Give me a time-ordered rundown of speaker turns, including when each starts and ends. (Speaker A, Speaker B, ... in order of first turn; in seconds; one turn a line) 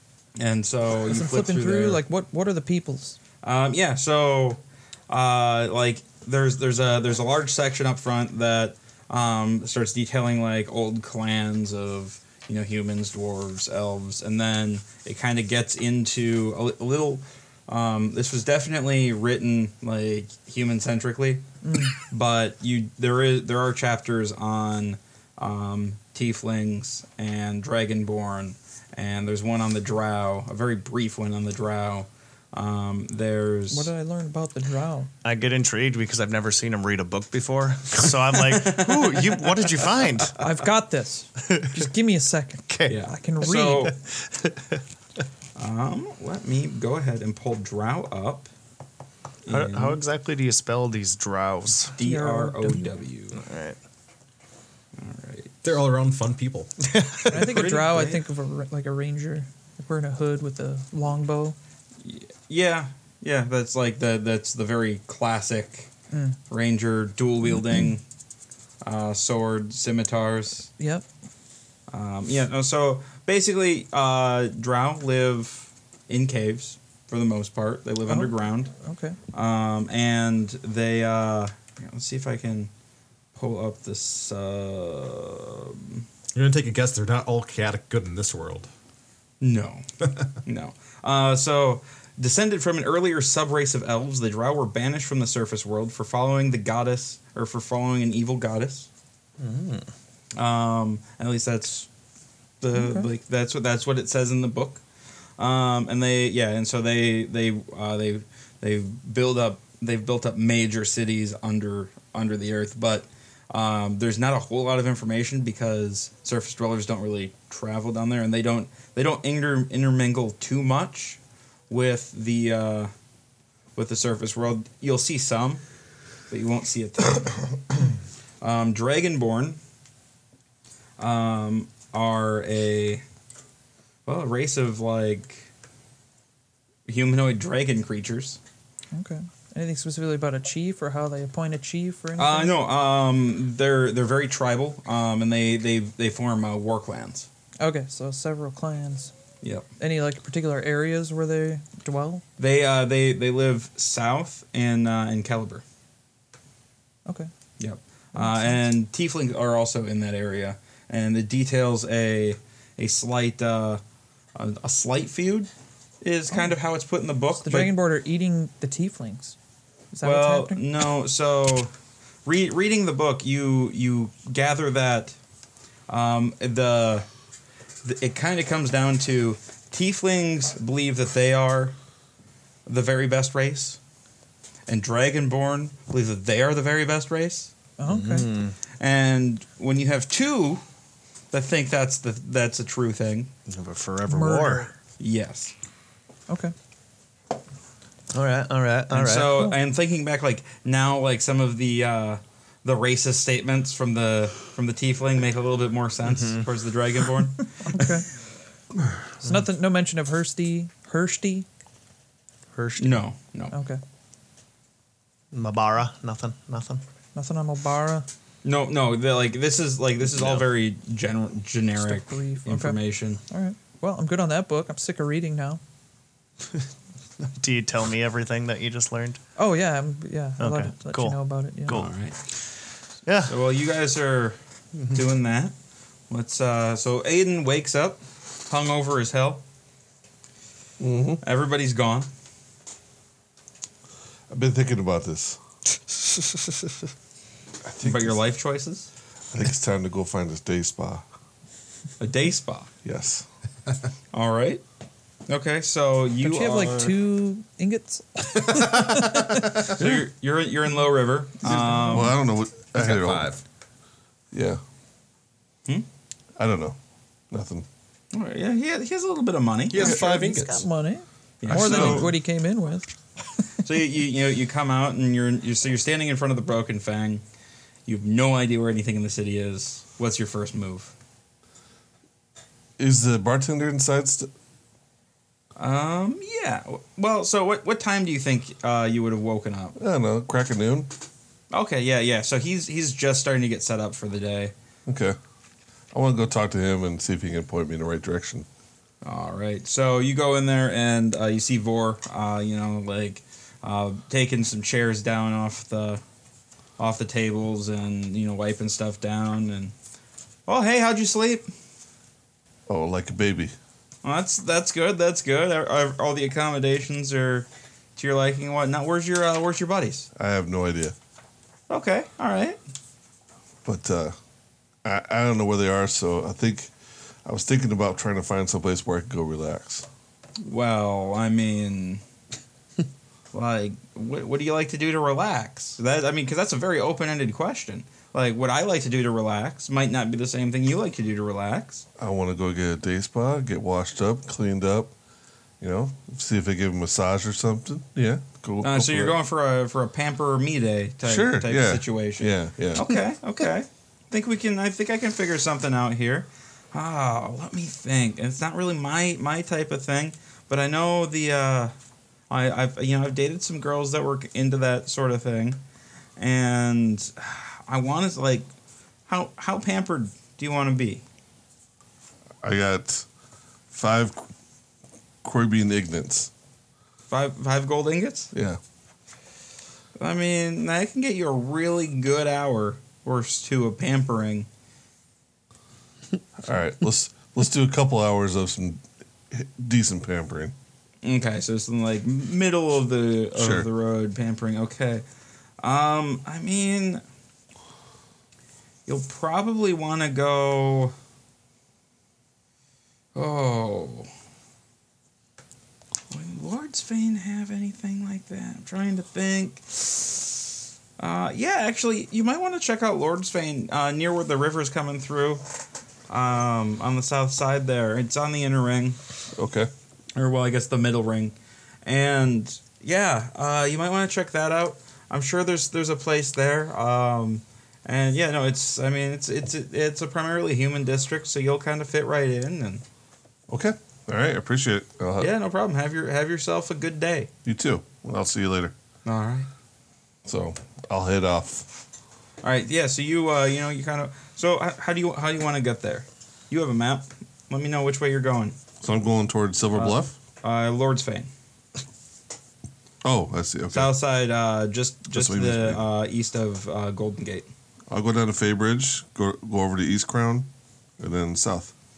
Speaker A: 0.4-2.0
Speaker B: 1.1-3.2
Speaker A: 3.4-21.4
Speaker B: 21.6-21.9
Speaker A: 22.1-33.9
Speaker B: 33.7-35.1
Speaker C: 35.2-40.4
Speaker A: 38.5-39.4
Speaker B: 40.4-43.9
Speaker C: 41.4-41.9
Speaker C: 42.7-43.0
Speaker A: 42.9-43.9
Speaker C: 43.9-44.8
Speaker A: 45.6-48.5
Speaker A: 49.4-50.0
Speaker C: 49.5-52.0
Speaker A: 52.0-53.4
Speaker B: 52.0-52.9
Speaker C: 53.3-53.8
Speaker A: 55.0-55.5
Speaker D: 55.6-56.7
Speaker C: 56.8-57.4
Speaker A: 57.3-58.2
Speaker B: 57.3-61.6
Speaker A: 62.0-65.9
Speaker B: 66.1-66.4
Speaker A: 66.5-68.0
Speaker B: 67.5-67.9
Speaker A: 68.8-70.7
Speaker B: 70.8-71.0
Speaker A: 71.9-78.7
Speaker B: 78.1-79.2
Speaker A: 79.3-82.7
Speaker A: 83.3-86.0
Speaker D: 86.3-88.7
Speaker A: 89.4-89.9
Speaker A: 90.4-98.9
Speaker C: 99.4-99.9
Speaker A: 100.4-101.9
Speaker A: 102.6-104.8
Speaker B: 102.7-103.1
Speaker A: 105.4-122.9
Speaker A: 123.8-125.6
Speaker A: 126.3-127.6
Speaker A: 128.4-129.6
Speaker A: 131.0-133.0
Speaker A: 134.1-135.5
Speaker A: 136.9-138.4
Speaker B: 138.9-142.6
Speaker A: 142.2-147.3
Speaker B: 147.6-149.1
Speaker B: 149.8-152.2
Speaker A: 152.4-155.6
Speaker A: 157.6-163.8
Speaker B: 158.1-158.6
Speaker A: 164.4-165.5
Speaker A: 166.0-167.7
Speaker B: 167.4-169.3
Speaker B: 169.9-170.6
Speaker A: 170.0-171.7
Speaker A: 172.2-175.2
Speaker A: 175.9-177.1
Speaker A: 177.8-181.7
Speaker A: 182.7-183.8
Speaker A: 184.7-187.5
Speaker B: 187.8-188.3
Speaker C: 187.8-188.6
Speaker A: 188.8-190.6
Speaker A: 191.3-193.3
Speaker C: 193.5-194.7
Speaker B: 194.1-194.7
Speaker A: 195.0-195.5
Speaker B: 196.3-196.5
Speaker C: 198.1-199.4
Speaker A: 198.9-208.0
Speaker C: 206.1-206.4
Speaker B: 207.6-208.1
Speaker B: 209.2-211.5
Speaker C: 212.5-213.0
Speaker A: 212.8-213.5
Speaker B: 213.5-213.8
Speaker C: 215.3-216.8
Speaker B: 217.1-218.1
Speaker A: 218.4-223.2
Speaker C: 220.2-220.4
Speaker B: 221.8-225.6
Speaker C: 227.2-229.2
Speaker B: 229.4-231.8
Speaker C: 230.4-231.9
Speaker A: 231.7-232.2
Speaker C: 233.1-233.3
Speaker A: 233.3-234.4
Speaker A: 234.9-235.5
Speaker A: 236.1-239.4
Speaker E: 240.8-241.2
Speaker A: 241.2-242.1
Speaker E: 244.3-245.4
Speaker E: 247.6-248.2
Speaker A: 247.8-248.9
Speaker E: 249.3-251.0
Speaker A: 252.0-252.7
Speaker E: 252.8-253.2
Speaker A: 254.1-254.6
Speaker A: 255.3-257.0
Speaker B: 256.2-259.8
Speaker A: 259.6-262.1
Speaker B: 261.4-262.1
Speaker E: 261.8-263.3
Speaker D: 262.7-263.4
Speaker E: 264.3-264.6
Speaker E: 266.4-266.8
Speaker E: 267.3-267.6
Speaker A: 268.1-270.0
Speaker D: 269.7-270.6
Speaker B: 269.7-272.9
Speaker A: 271.4-272.1
Speaker E: 271.5-272.1
Speaker A: 273.6-277.2
Speaker A: 277.9-280.9
Speaker E: 282.8-284.3
Speaker A: 285.6-289.8
Speaker E: 289.8-290.9
Speaker A: 291.5-294.5
Speaker E: 294.9-295.1
Speaker E: 295.9-298.5
Speaker A: 299.0-306.0
Speaker A: 306.8-309.7
Speaker A: 310.5-311.5
Speaker E: 312.7-313.5
Speaker A: 314.0-320.1
Speaker E: 320.1-320.9
Speaker A: 321.7-322.6
Speaker E: 323.6-324.1
Speaker E: 324.8-326.7
Speaker E: 327.2-329.9
Speaker A: 330.4-332.0
Speaker A: 333.3-341.9
Speaker E: 342.0-344.9
Speaker E: 345.6-349.1
Speaker A: 348.6-361.7
Speaker E: 351.0-353.0
Speaker A: 362.3-365.6
Speaker A: 366.2-368.5
Speaker A: 369.1-371.0
Speaker E: 372.4-373.1
Speaker E: 373.7-374.2
Speaker E: 375.2-376.3
Speaker A: 377.1-378.3
Speaker E: 378.3-378.6
Speaker A: 380.0-384.5
Speaker E: 386.4-390.5
Speaker A: 391.0-395.0
Speaker E: 393.4-393.7
Speaker A: 395.6-397.0
Speaker A: 398.9-400.9
Speaker A: 403.1-404.1
Speaker A: 406.1-410.2
Speaker A: 411.0-415.4
Speaker A: 416.1-419.0
Speaker E: 419.4-419.7
Speaker A: 420.1-432.8
Speaker E: 433.5-435.3
Speaker A: 435.2-437.3
Speaker E: 437.4-438.7
Speaker A: 439.0-439.5
Speaker E: 440.2-441.7
Speaker A: 442.4-448.6
Speaker E: 448.8-450.1
Speaker A: 449.8-451.3
Speaker E: 453.0-453.9
Speaker A: 453.7-457.5
Speaker E: 455.1-455.8
Speaker E: 457.9-460.5
Speaker E: 461.0-461.7